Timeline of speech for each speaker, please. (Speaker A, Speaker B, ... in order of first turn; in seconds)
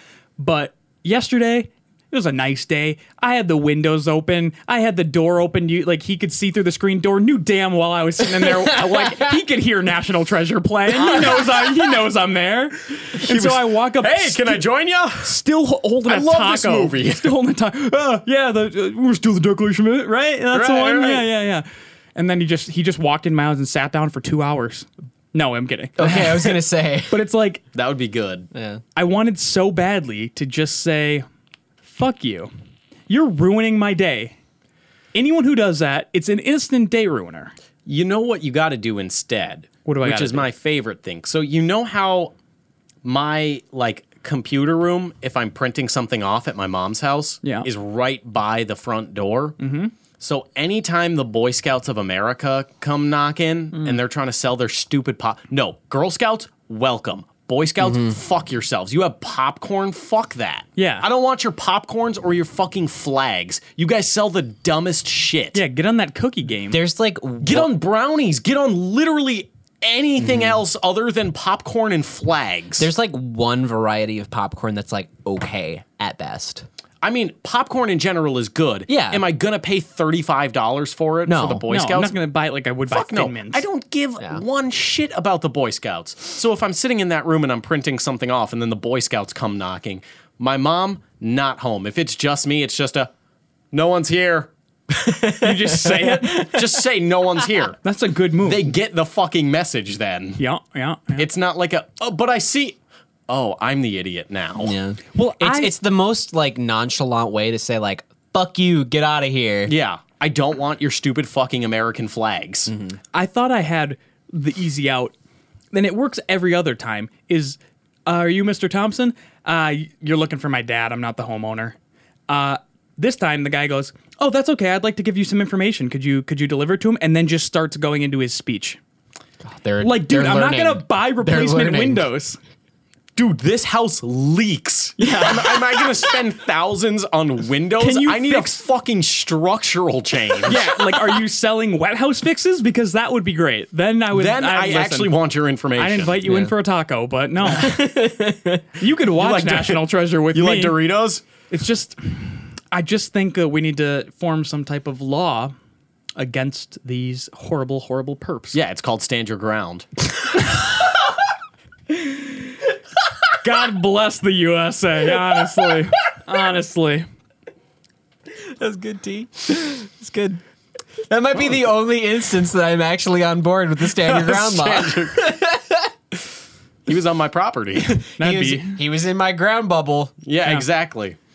Speaker A: 0.4-14.6, 15.2-27.6, 29.0-31.3, 31.8-32.5, 33.1-34.4, 35.1-37.5, 39.9-40.5, 47.4-47.7, 49.6-49.9, 60.8-61.1, 65.5-66.8, 81.7-83.6, 95.4-96.5, 97.8-98.7, 100.4-101.3, 105.2-105.8, 113.1-115.1, 115.7-121.8, 122.3-128.8, 129.8-132.4, 135.0-135.5, 137.8-138.6, 140.5-145.1, 145.8-147.8, 148.8-150.8, 151.5-155.5, 156.2-158.6, 163.4-167.1, 178.2-178.8
Speaker B: 8.3-9.4, 11.0-11.7, 26.0-27.2, 28.5-28.8, 66.7-67.7, 70.2-70.6, 72.8-76.7, 78.9-79.2, 81.3-81.7, 94.9-96.8, 104.6-109.7, 112.7-113.0, 129.4-132.1, 135.0-136.0, 146.2-146.5, 147.4-148.7, 168.3-170.4, 171.1-175.9, 177.9-180.1
Speaker C: 13.2-15.4, 16.1-17.4, 20.5-21.3, 27.7-28.5, 37.9-42.3, 43.0-49.6, 50.2-65.6, 67.4-72.9, 77.0-82.2, 82.9-93.1, 93.7-94.5, 96.2-97.8, 98.4-100.4, 101.2-102.8, 103.3-104.8, 109.7-112.7, 133.2-140.8, 144.1-146.2, 149.2-151.2, 158.5-159.9, 173.9-175.3, 176.9-178.0, 180.2-181.2